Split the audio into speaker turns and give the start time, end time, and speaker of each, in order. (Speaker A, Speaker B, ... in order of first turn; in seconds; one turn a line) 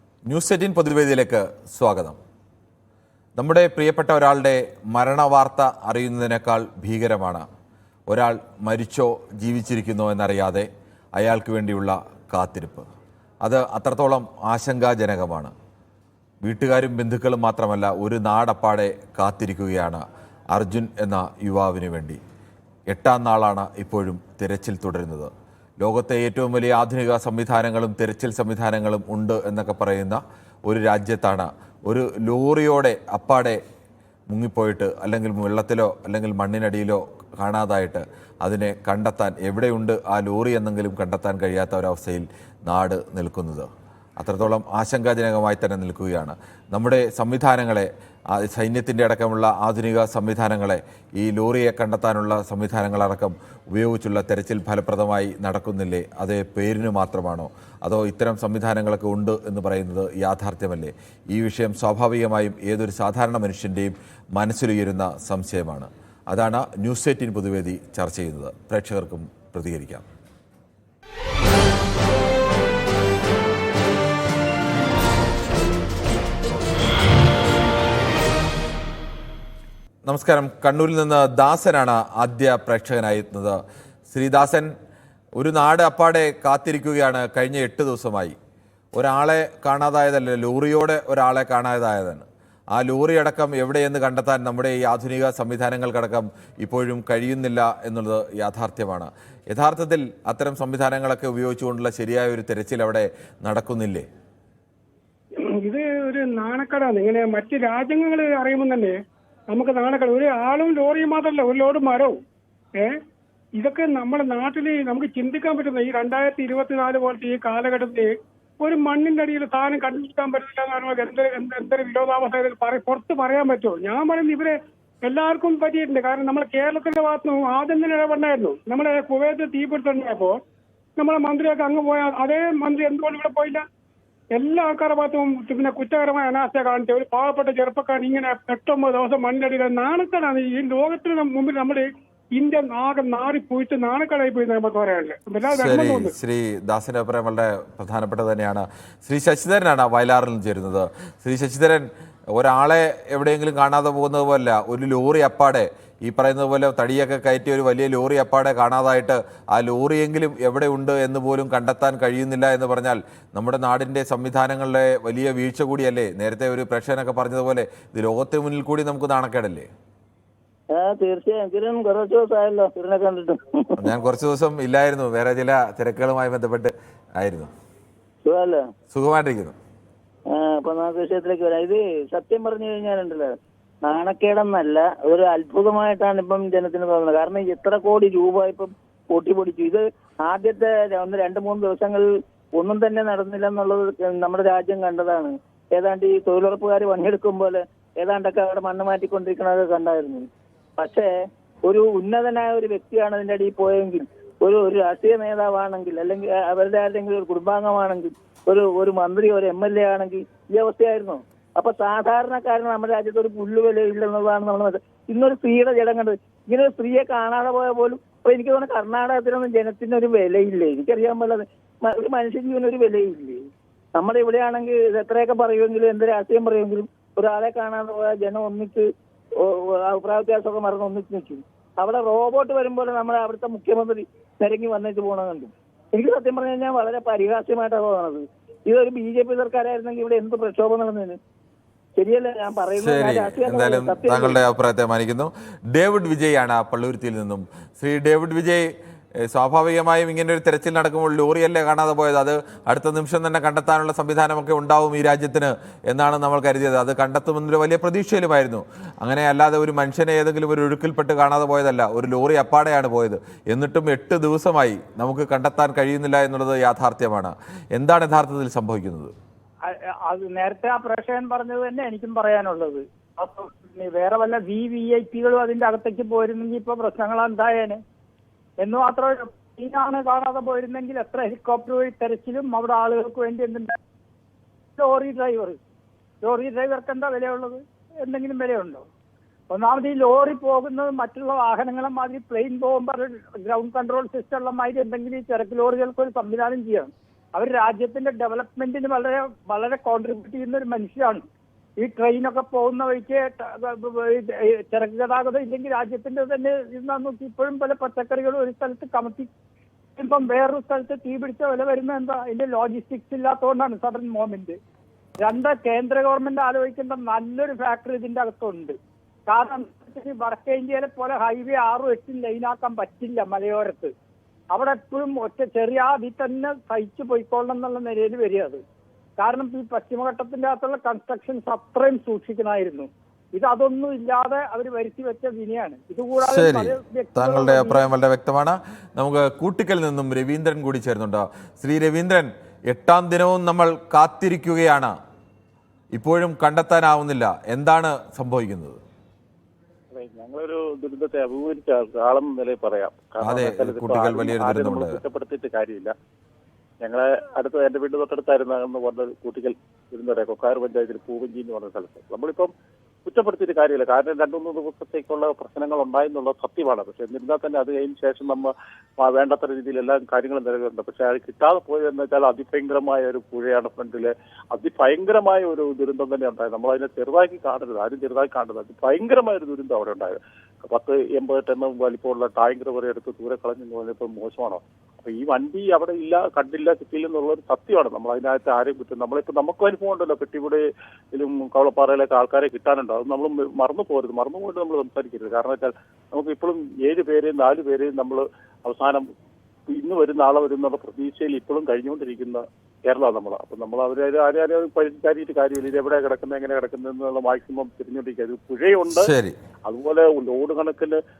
Speaker A: 0.3-2.2
Speaker A: 3.4-7.5
Speaker A: 8.1-12.9
Speaker A: 13.4-15.5
Speaker A: 16.4-22.2
Speaker A: 22.9-33.6
Speaker A: 34.3-70.0
Speaker A: 80.0-83.6
Speaker A: 84.1-84.7
Speaker A: 85.4-88.3
Speaker A: 89.0-104.1
Speaker B: 105.4-108.9
Speaker B: 109.5-112.2
Speaker B: 113.6-118.1
Speaker B: 118.6-130.4
Speaker B: 131.0-133.6
Speaker B: 134.4-141.8
Speaker B: 142.4-146.1
Speaker A: 145.5-169.7
Speaker C: 170.7-173.8
Speaker A: 173.8-177.5
Speaker C: 178.2-178.6
Speaker A: 178.9-179.6
Speaker C: 180.3-183.3
Speaker C: 183.8-201.1
Speaker C: 201.7-223.4
Speaker C: 224.0-228.8
Speaker C: 229.4-241.2
Speaker C: 242.0-244.4
Speaker A: 242.8-248.7
Speaker A: 249.2-269.1
Speaker D: 270.1-277.8
Speaker D: 278.6-283.8
Speaker D: 284.8-285.6
Speaker D: 286.2-288.9
Speaker D: 289.5-301.2
Speaker D: 301.8-309.3
Speaker D: 310.0-314.6
Speaker D: 315.2-323.9
Speaker D: 324.5-328.6
Speaker D: 329.2-337.9
Speaker A: 336.2-344.9
Speaker A: 345.9-348.8
Speaker E: 349.9-355.9
Speaker A: 353.2-355.0
Speaker E: 356.8-362.5
Speaker E: 363.1-399.1
Speaker E: 399.7-409.1
Speaker A: 408.9-409.4
Speaker E: 409.7-411.0